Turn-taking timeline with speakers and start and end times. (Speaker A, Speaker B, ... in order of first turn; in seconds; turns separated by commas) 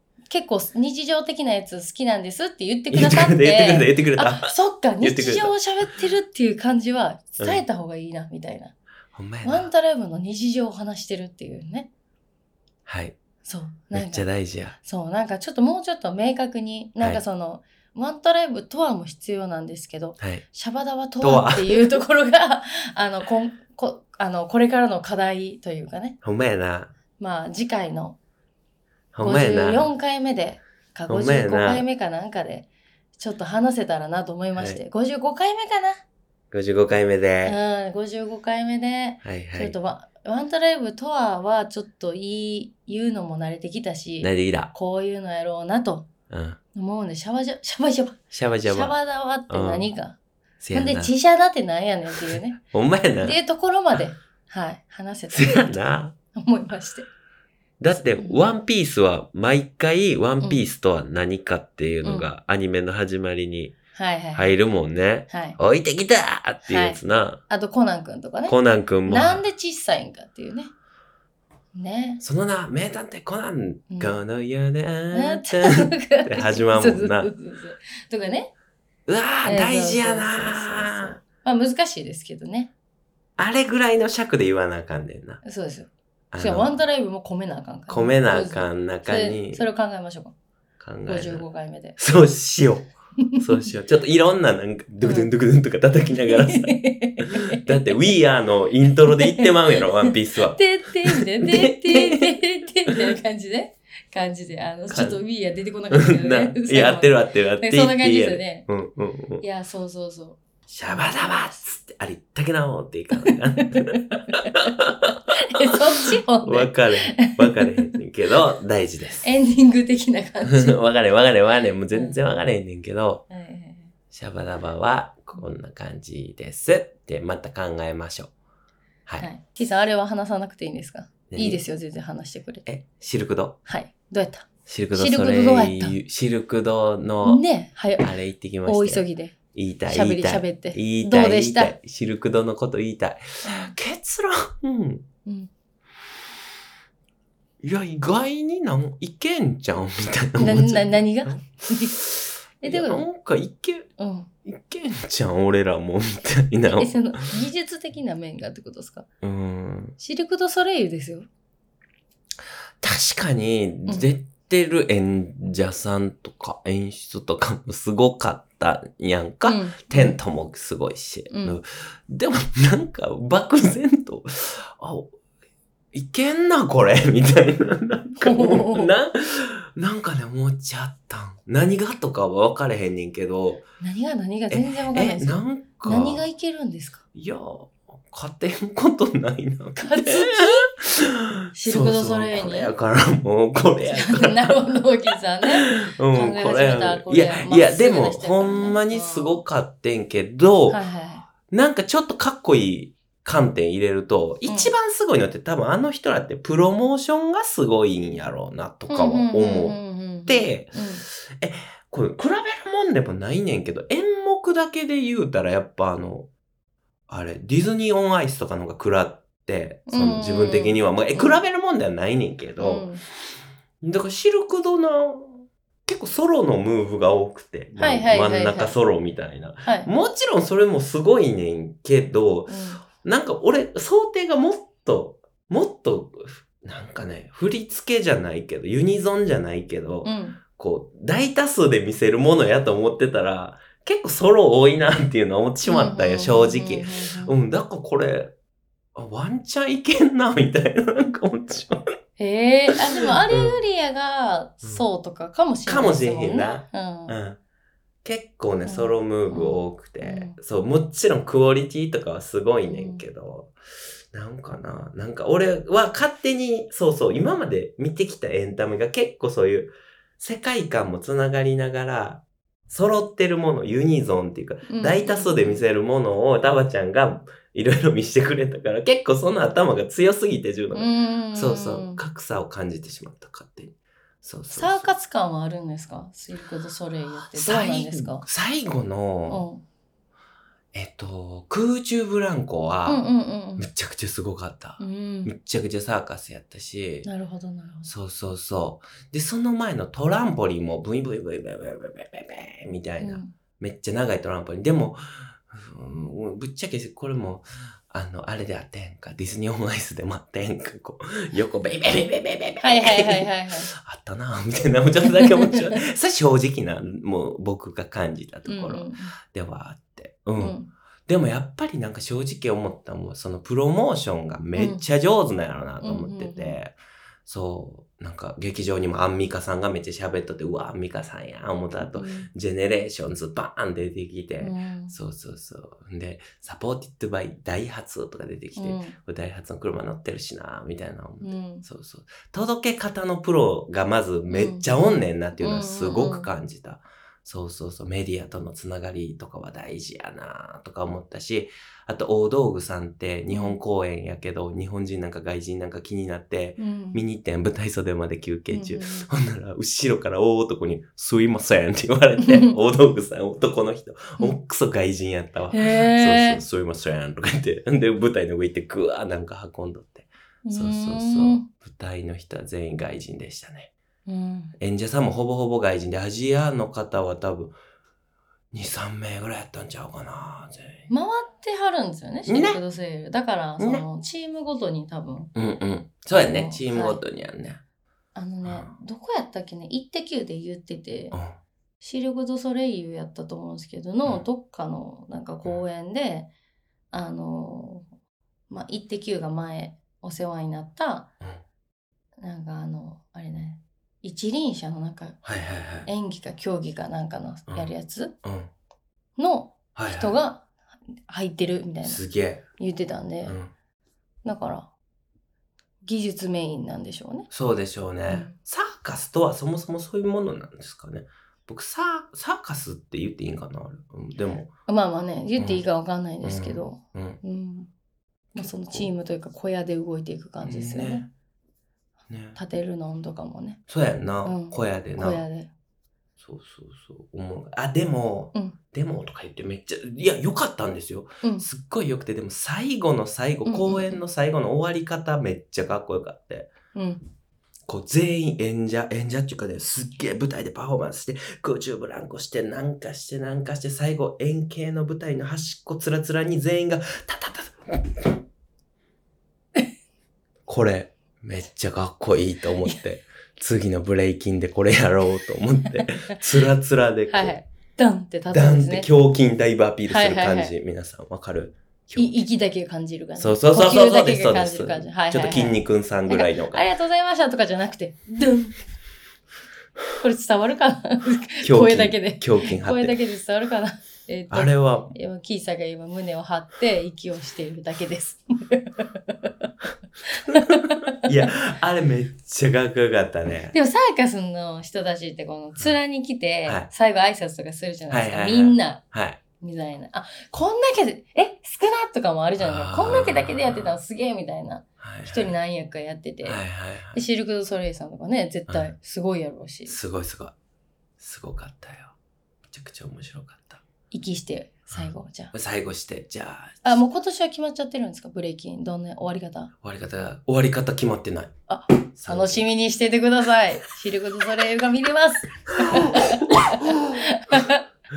Speaker A: 0.3-8.7, Speaker B: 2.9-5.5, Speaker B: 9.1-9.7, Speaker A: 9.4-11.9, Speaker B: 12.8-13.2, Speaker A: 13.4-26.2, Speaker B: 13.9-14.8, Speaker B: 21.2-21.9, Speaker B: 26.2-26.9, Speaker A: 27.2-28.2, Speaker B: 29.1-29.9, Speaker A: 29.2-32.7, Speaker B: 31.1-31.8, Speaker A: 33.2-36.0, Speaker B: 34.5-34.8, Speaker B: 36.5-37.6, Speaker A: 37.4-46.1, Speaker B: 39.2-39.8, Speaker B: 44.2-44.7, Speaker B: 46.3-46.6, Speaker A: 46.7-50.2, Speaker B: 48.3-49.0, Speaker B: 49.5-49.9, Speaker B: 50.6-51.1, Speaker A: 50.7-52.6, Speaker B: 52.2-53.4, Speaker A: 53.2-55.8, Speaker B: 55.3-56.1, Speaker A: 56.3-57.1, Speaker B: 57.8-63.8, Speaker A: 57.9-58.4, Speaker A: 62.0-62.3, Speaker A: 63.9-64.5, Speaker B: 64.3-67.4, Speaker A: 65.3-65.6, Speaker A: 66.6-70.7, Speaker B: 68.5-69.4, Speaker A: 71.7-72.2, Speaker B: 72.2-77.3, Speaker A: 73.9-74.2, Speaker A: 75.1-78.5, Speaker B: 79.1-81.2, Speaker A: 79.4-82.7, Speaker B: 83.4-85.4, Speaker A: 85.4-90.3, Speaker B: 86.3-86.7, Speaker B: 87.9-89.6, Speaker B: 90.8-91.4, Speaker A: 91.1-92.0, Speaker B: 92.0-102.3, Speaker A: 95.0-95.3, Speaker A: 96.2-98.0, Speaker A: 99.2-108.7, Speaker B: 104.9-105.2, Speaker B: 105.9-109.4, Speaker A: 109.4-111.1, Speaker B: 110.7-119.3, Speaker A: 113.1-114.7, Speaker A: 115.5-117.9, Speaker A: 119.2-120.8, Speaker B: 120.4-123.2, Speaker A: 121.9-122.2, Speaker A: 123.3-123.9, Speaker B: 124.1-128.3, Speaker A: 129.2-132.7, Speaker B: 131.3-131.6, Speaker B: 132.7-133.6, Speaker A: 133.7-136.0, Speaker B: 134.7-137.4, Speaker A: 137.2-138.1, Speaker B: 138.0-145.0, Speaker A: 138.6-139.3, Speaker A: 139.9-141.8, Speaker A: 143.4-143.7, Speaker A: 145.2-145.5, Speaker B: 147.6-153.9, Speaker A: 150.4-151.9, Speaker A: 152.6-153.1, Speaker A: 154.0-154.3, Speaker B: 154.4-156.9, Speaker A: 156.7-159.1, Speaker B: 159.2-159.9, Speaker A: 160.0-161.2, Speaker B: 162.8-175.1, Speaker A: 169.4-170.2, Speaker A: 171.3-171.6, Speaker B: 175.9-183.6, Speaker A: 178.2-178.9, Speaker A: 183.8-187.0, Speaker B: 184.5-186.2, Speaker B: 187.1-194.8, Speaker A: 189.8-190.7, Speaker A: 191.6-192.7, Speaker A: 193.8-199.4, Speaker B: 195.4-200.8, Speaker A: 200.7-201.3, Speaker B: 201.4-216.3, Speaker A: 204.4-204.7, Speaker A: 208.9-211.0, Speaker B: 217.1-222.9, Speaker A: 219.9-221.4, Speaker A: 222.6-223.0, Speaker B: 223.8-248.3, Speaker A: 227.8-228.8, Speaker A: 229.6-229.9, Speaker A: 232.5-232.8, Speaker A: 240.0-240.4, Speaker A: 245.6-247.3, Speaker B: 248.9-251.9, Speaker A: 252.2-257.1, Speaker B: 252.7-253.6, Speaker B: 255.7-257.4, Speaker B: 258.0-263.5, Speaker A: 258.6-260.4, Speaker A: 262.7-263.0, Speaker B: 264.1-284.9, Speaker A: 274.7-275.6, Speaker A: 280.7-282.0, Speaker A: 284.5-288.2, Speaker B: 287.2-289.4, Speaker A: 289.3-289.6, Speaker B: 290.7-293.1, Speaker A: 292.9-293.7, Speaker B: 293.6-297.1, Speaker A: 294.8-295.3, Speaker A: 297.1-297.9, Speaker B: 297.8-326.8, Speaker A: 303.0-303.3, Speaker A: 312.6-313.7, Speaker A: 315.1-315.8, Speaker A: 318.4-319.1, Speaker A: 320.4-320.7, Speaker A: 324.6-324.8, Speaker A: 325.8-326.6, Speaker B: 327.2-373.7, Speaker A: 331.9-332.3, Speaker A: 334.4-334.9, Speaker A: 338.6-338.9, Speaker A: 341.2-341.7, Speaker A: 344.3-344.7, Speaker A: 345.4-346.3, Speaker A: 353.3-353.6, Speaker A: 356.6-357.0, Speaker A: 358.5-359.1, Speaker A: 362.2-362.6, Speaker A: 365.5-366.4, Speaker A: 370.4-371.5, Speaker A: 374.1-374.5, Speaker B: 374.6-377.6, Speaker B: 378.5-380.9, Speaker A: 380.9-385.3, Speaker B: 382.3-382.6, Speaker B: 383.6-383.8, Speaker B: 385.3-387.6, Speaker A: 386.2-387.0, Speaker A: 388.1-391.2, Speaker B: 388.4-388.7, Speaker B: 391.1-391.4, Speaker A: 391.8-396.3, Speaker A: 396.9-397.9, Speaker A: 398.5-401.1, Speaker A: 402.2-405.2, Speaker B: 405.2-405.9, Speaker A: 405.8-408.1, Speaker B: 408.2-408.5, Speaker A: 409.2-410.5, Speaker B: 409.7-410.2, Speaker A: 411.1-412.0, Speaker B: 411.8-412.4, Speaker A: 412.6-413.4, Speaker B: 413.2-413.5, Speaker A: 414.2-414.7, Speaker A: 415.8-417.3, Speaker B: 417.3-424.5, Speaker A: 418.1-418.3, Speaker A: 424.2-427.7, Speaker B: 425.4-425.6, Speaker B: 426.2-427.2, Speaker A: 428.3-431.1, Speaker B: 428.4-428.9, Speaker B: 430.4-431.1, Speaker B: 432.1-432.4, Speaker A: 432.3-433.6, Speaker B: 433.7-435.2, Speaker A: 434.2-435.5, Speaker B: 436.2-446.5, Speaker A: 443.4-444.0, Speaker A: 446.7-447.0, Speaker B: 447.7-458.2, Speaker B: 460.5-467.3, Speaker A: 465.8-466.2, Speaker A: 467.1-468.9, Speaker B: 468.3-472.2, Speaker A: 469.9-470.5, Speaker A: 471.9-478.6, Speaker B: 473.2-476.6, Speaker A: 480.0-489.5, Speaker B: 481.4-483.0, Speaker B: 484.3-484.9, Speaker A: 490.1-491.3, Speaker B: 490.2-493.6, Speaker A: 493.5-498.8, Speaker B: 497.9-499.2, Speaker A: 499.4-506.4, Speaker B: 502.4-503.7, Speaker B: 504.8-505.3, Speaker B: 506.2-507.0, Speaker A: 506.9-509.8, Speaker B: 509.7-510.3, Speaker B: 511.0-511.9, Speaker B: 512.5-513.6, Speaker A: 513.9-515.3, Speaker B: 514.7-516.8, Speaker A: 516.6-519.5, Speaker B: 519.6-521.3, Speaker A: 521.5-527.6, Speaker B: 522.0-522.4, Speaker B: 525.5-527.4